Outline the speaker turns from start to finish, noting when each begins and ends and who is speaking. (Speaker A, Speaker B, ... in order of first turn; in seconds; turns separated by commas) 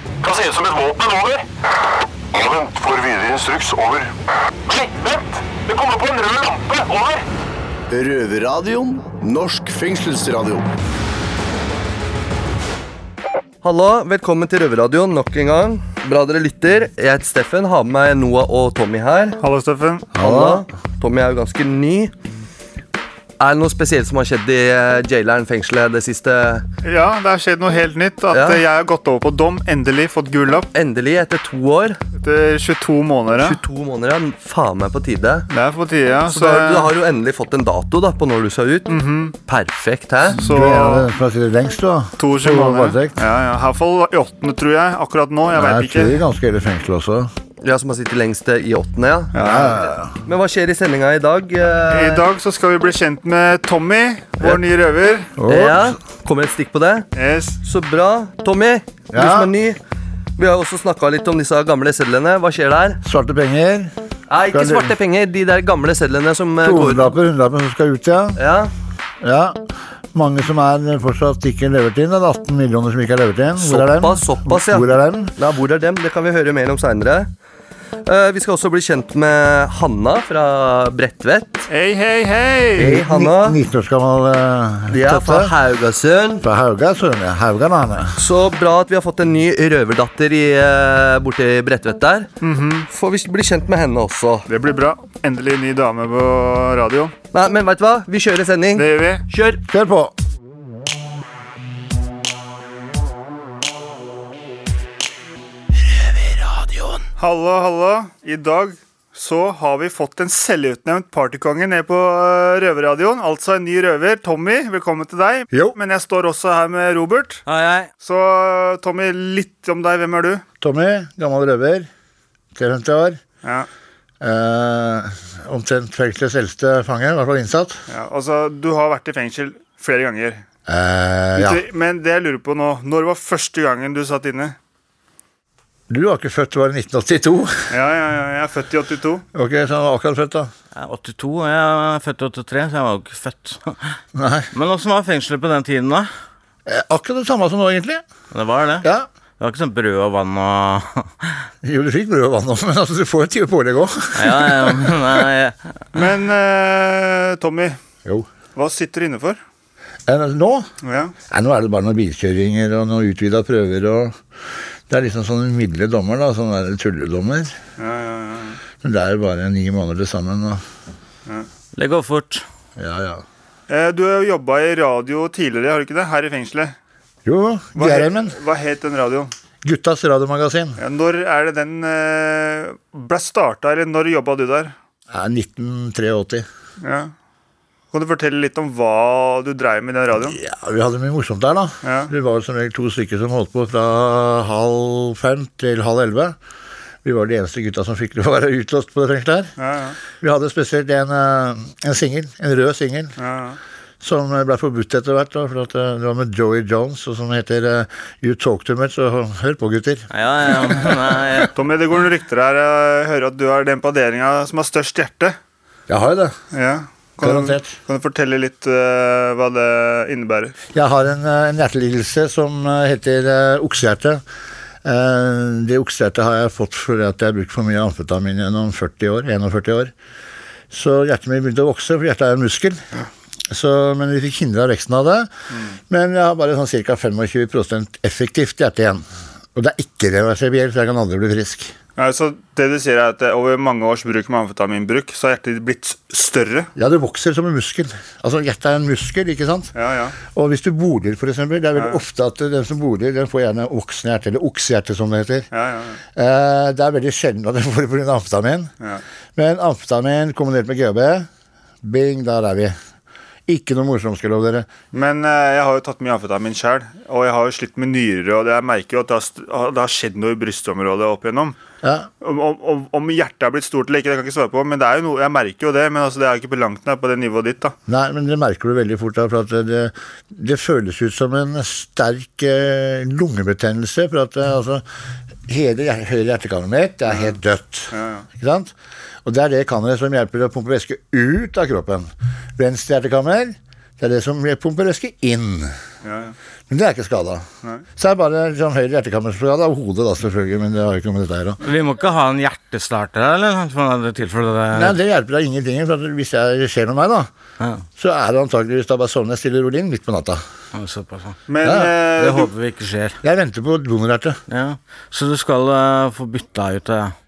Speaker A: 0.2-1.4, Speaker A: 2.3-4.1, Speaker A: 4.7-7.2, Speaker B: 7.9-10.7, Speaker C: 13.6-19.4, Speaker D: 19.4-20.1, Speaker E: 20.1-20.6, Speaker C: 20.2-22.1, Speaker C: 23.4-26.6, Speaker D: 26.8-30.7, Speaker C: 28.3-28.6, Speaker C: 30.7-32.0, Speaker D: 32.2-33.6, Speaker C: 33.3-35.5, Speaker D: 35.5-36.9, Speaker C: 36.3-39.0, Speaker D: 38.9-39.4, Speaker C: 39.5-40.4, Speaker D: 40.4-41.1, Speaker E: 40.5-43.2, Speaker D: 42.2-46.2, Speaker E: 45.5-47.3, Speaker C: 47.6-49.7, Speaker D: 49.4-49.7, Speaker E: 49.4-50.1, Speaker C: 50.2-52.3, Speaker D: 51.9-55.3, Speaker E: 55.4-56.0, Speaker C: 55.5-57.1, Speaker D: 57.1-57.6, Speaker C: 57.6-59.8, Speaker E: 59.1-59.5, Speaker C: 60.4-63.0, Speaker E: 63.0-63.9, Speaker C: 64.3-67.1, Speaker E: 64.5-65.0, Speaker E: 66.6-68.4, Speaker C: 68.4-68.7, Speaker E: 69.2-75.3, Speaker C: 73.6-77.3, Speaker C: 78.1-81.7, Speaker D: 81.7-83.0, Speaker C: 82.8-83.6, Speaker E: 82.8-85.5, Speaker C: 84.9-86.4, Speaker E: 86.4-88.2, Speaker C: 88.2-92.3, Speaker D: 92.4-92.9, Speaker C: 92.9-94.5, Speaker D: 94.5-97.1, Speaker C: 97.3-99.6, Speaker D: 98.8-99.2, Speaker E: 99.7-100.1, Speaker E: 106.3-106.9, Speaker D: 107.2-117.4, Speaker E: 115.5-115.8, Speaker F: 117.5-117.9, Speaker D: 118.0-120.4, Speaker E: 120.6-121.9, Speaker E: 122.5-123.2, Speaker D: 123.4-123.7, Speaker E: 124.2-127.8, Speaker D: 127.9-130.4, Speaker E: 130.7-131.6, Speaker D: 131.4-134.6, Speaker E: 135.9-137.7, Speaker D: 137.7-139.2, Speaker E: 139.3-140.5, Speaker F: 140.8-143.8, Speaker E: 144.2-144.5, Speaker F: 144.5-146.1, Speaker E: 146.7-148.0, Speaker F: 148.3-148.9, Speaker E: 148.8-149.1, Speaker F: 149.4-151.1, Speaker E: 151.6-155.2, Speaker F: 154.2-155.6, Speaker D: 155.9-157.8, Speaker D: 158.6-159.4, Speaker E: 160.1-160.7, Speaker D: 160.8-161.1, Speaker E: 161.3-164.2, Speaker E: 164.9-167.6, Speaker D: 167.8-168.6, Speaker E: 168.8-170.6, Speaker F: 171.8-172.4, Speaker E: 172.8-173.2, Speaker D: 173.7-176.8, Speaker E: 177.3-178.3, Speaker D: 177.8-179.3, Speaker E: 179.6-180.8, Speaker D: 180.8-184.7, Speaker E: 185.1-186.5, Speaker D: 186.8-187.1, Speaker D: 187.9-190.4, Speaker E: 190.2-196.4, Speaker D: 191.8-192.1, Speaker E: 197.0-199.5, Speaker D: 199.6-200.0, Speaker E: 200.2-203.2, Speaker D: 203.2-203.6, Speaker E: 204.0-211.5, Speaker F: 210.1-211.5, Speaker D: 211.6-215.4, Speaker E: 215.9-216.3, Speaker D: 216.5-220.6, Speaker E: 217.2-217.8, Speaker E: 220.7-224.2, Speaker E: 224.8-229.9, Speaker E: 230.7-232.8, Speaker E: 233.5-235.3, Speaker E: 235.9-241.8, Speaker D: 242.0-246.7, Speaker E: 246.8-249.7, Speaker D: 249.8-250.2, Speaker E: 250.3-255.5, Speaker D: 251.8-252.0, Speaker D: 255.5-256.0, Speaker E: 256.1-258.7, Speaker E: 259.4-261.3, Speaker E: 261.8-262.8, Speaker E: 263.5-264.7, Speaker D: 264.9-271.6, Speaker E: 271.8-272.1, Speaker D: 272.2-277.8, Speaker E: 277.9-284.8, Speaker E: 285.5-288.7, Speaker D: 287.9-288.2, Speaker E: 289.2-295.7, Speaker D: 296.0-296.4, Speaker E: 296.7-297.5, Speaker E: 298.0-301.6, Speaker F: 301.6-305.0, Speaker E: 304.7-307.3, Speaker E: 308.0-310.4, Speaker F: 310.8-311.4, Speaker D: 311.5-312.5, Speaker E: 311.6-311.9, Speaker F: 312.2-313.2, Speaker E: 313.2-314.4, Speaker F: 314.5-317.1